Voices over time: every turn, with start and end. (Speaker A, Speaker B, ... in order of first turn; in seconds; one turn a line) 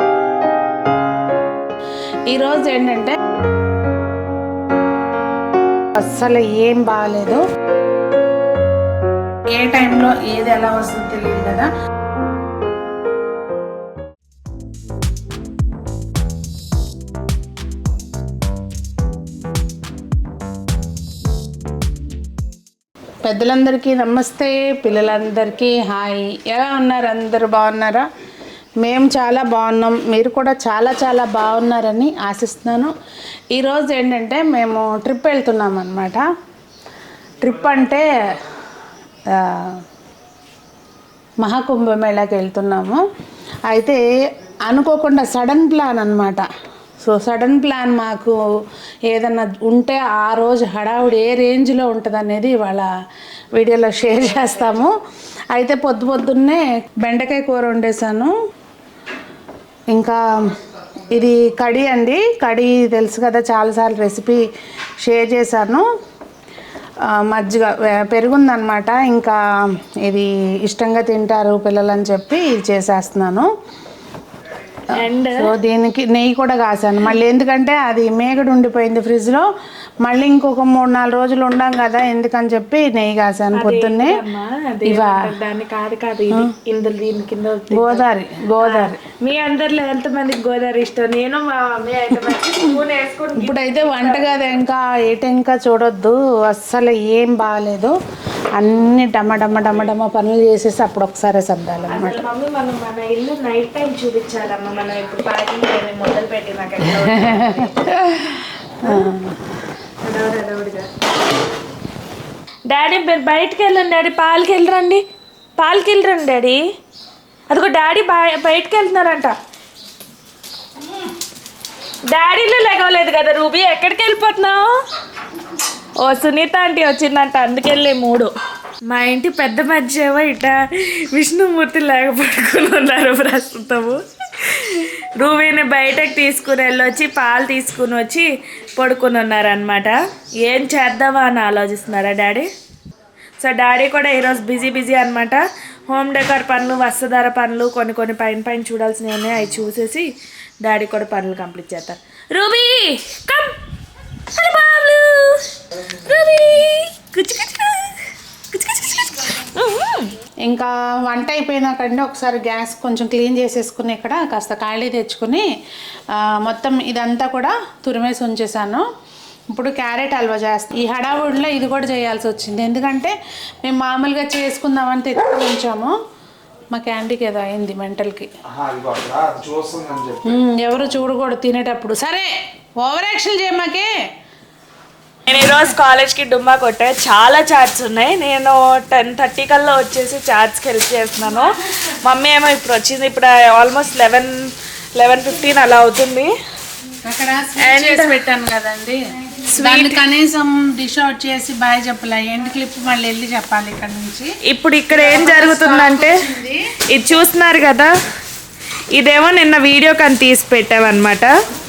Speaker A: 2.3-3.1
Speaker A: 6.1-7.4
Speaker A: 9.5-11.7
Speaker A: 23.2-28.1
Speaker A: 28.8-32.9
Speaker A: 33.5-36.2
Speaker A: 37.4-38.0
Speaker A: 39.3-39.8
Speaker A: 41.4-43.0
Speaker A: 43.7-44.0
Speaker A: 44.7-46.4
Speaker A: 47.0-48.3
Speaker A: 49.1-52.9
Speaker A: 53.5-54.9
Speaker A: 55.5-58.3
Speaker A: 59.9-60.2
Speaker A: 61.1-64.4
Speaker A: 65.0-65.8
Speaker A: 67.1-69.4
Speaker A: 70.1-73.5
Speaker B: 74.9-75.5
Speaker A: 75.3-79.5
Speaker A: 80.0-84.2
Speaker B: 83.5-88.0
Speaker A: 84.9-85.2
Speaker A: 87.7-89.0
Speaker B: 88.6-94.6
Speaker A: 93.4-98.0
Speaker A: 98.6-102.2
Speaker B: 101.9-108.0
Speaker A: 106.8-108.2
Speaker A: 108.8-109.4
Speaker B: 108.8-109.1
Speaker B: 110.0-110.9
Speaker B: 112.7-115.0
Speaker B: 115.6-116.6
Speaker B: 117.5-119.3
Speaker B: 122.1-124.8
Speaker B: 126.0-128.3
Speaker B: 128.9-130.6
Speaker B: 131.1-142.5
Speaker B: 143.4-150.1
Speaker B: 150.6-153.6
Speaker B: 154.3-158.0
Speaker B: 158.5-160.1
Speaker A: 160.4-165.5
Speaker A: 166.1-168.8
Speaker A: 169.5-173.1
Speaker A: 173.6-175.9
Speaker A: 176.7-178.3
Speaker A: 180.2-182.3
Speaker A: 182.8-183.9
Speaker B: 185.3-196.3
Speaker A: 197.0-199.0
Speaker B: 197.6-198.2
Speaker B: 199.5-200.0
Speaker A: 199.6-204.3
Speaker B: 204.4-206.2
Speaker A: 204.9-206.6
Speaker B: 206.9-207.9
Speaker B: 208.9-211.3